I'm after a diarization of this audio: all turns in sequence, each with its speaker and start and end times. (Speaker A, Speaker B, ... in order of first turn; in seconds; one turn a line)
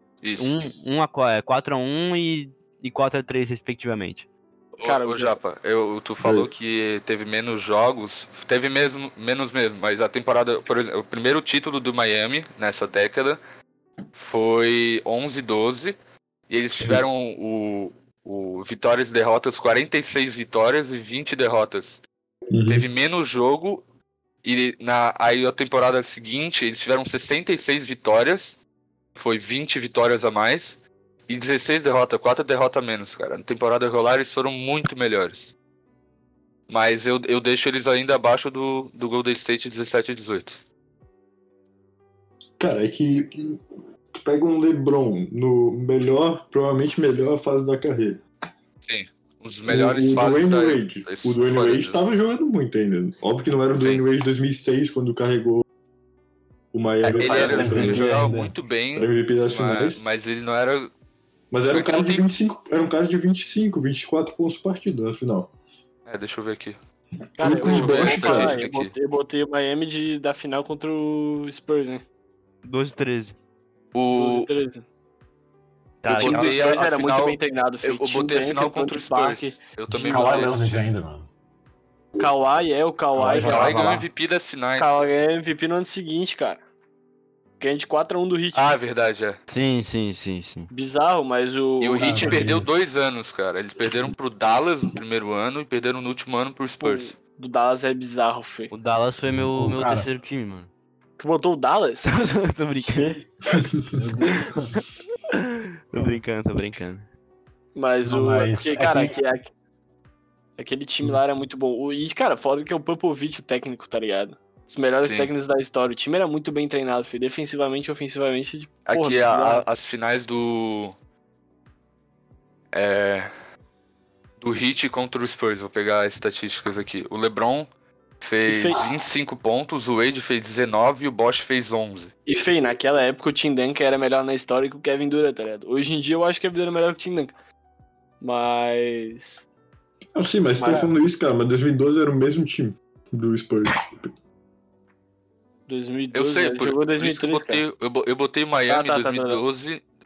Speaker A: 0.2-0.6
Speaker B: 0.4-4.3
Speaker A: 4.8-13.4
Speaker C: 4.8-5.3
Speaker D: 6.2-6.5
Speaker A: 14.1-15.9
Speaker A: 16.5-22.0
Speaker D: 16.8-17.0
Speaker D: 22.5-22.9
Speaker A: 22.7-23.8
Speaker A: 24.4-28.6
Speaker A: 29.1-35.5
Speaker A: 36.7-40.6
Speaker D: 42.6-48.2
Speaker A: 48.8-52.0
Speaker D: 49.7-55.6
Speaker A: 53.7-54.0
Speaker D: 56.7-58.1
Speaker A: 57.1-60.9
Speaker E: 57.1-58.5
Speaker D: 58.9-60.0
Speaker D: 61.5-65.5
Speaker A: 61.7-62.2
Speaker A: 66.0-66.8
Speaker D: 67.4-68.6
Speaker C: 67.4-72.0
Speaker A: 67.5-68.9
Speaker B: 72.6-73.3
Speaker A: 73.9-74.5
Speaker C: 74.1-74.8
Speaker B: 76.0-76.6
Speaker A: 76.1-80.9
Speaker C: 76.1-80.6
Speaker E: 79.9-81.3
Speaker C: 82.2-83.9
Speaker E: 83.1-84.0
Speaker A: 83.4-85.0
Speaker C: 84.8-86.6
Speaker C: 87.6-88.8
Speaker A: 88.5-89.4
Speaker B: 89.5-90.7
Speaker C: 90.7-92.5
Speaker A: 91.8-97.2
Speaker E: 92.0-92.7
Speaker C: 96.8-98.7
Speaker B: 98.7-100.7
Speaker E: 99.4-100.1
Speaker C: 101.2-102.1
Speaker B: 102.0-103.2
Speaker E: 102.8-104.8
Speaker B: 104.3-107.0
Speaker C: 107.7-109.5
Speaker E: 108.0-109.2
Speaker C: 110.6-119.6
Speaker A: 115.0-115.3
Speaker A: 118.8-120.9
Speaker A: 122.7-123.3
Speaker A: 124.4-127.7
Speaker A: 128.2-132.1
Speaker C: 128.5-128.8
Speaker C: 132.3-137.3
Speaker C: 138.2-139.4
Speaker D: 140.1-144.1
Speaker C: 140.6-140.9
Speaker C: 145.7-147.6
Speaker A: 146.1-149.8
Speaker C: 148.7-149.4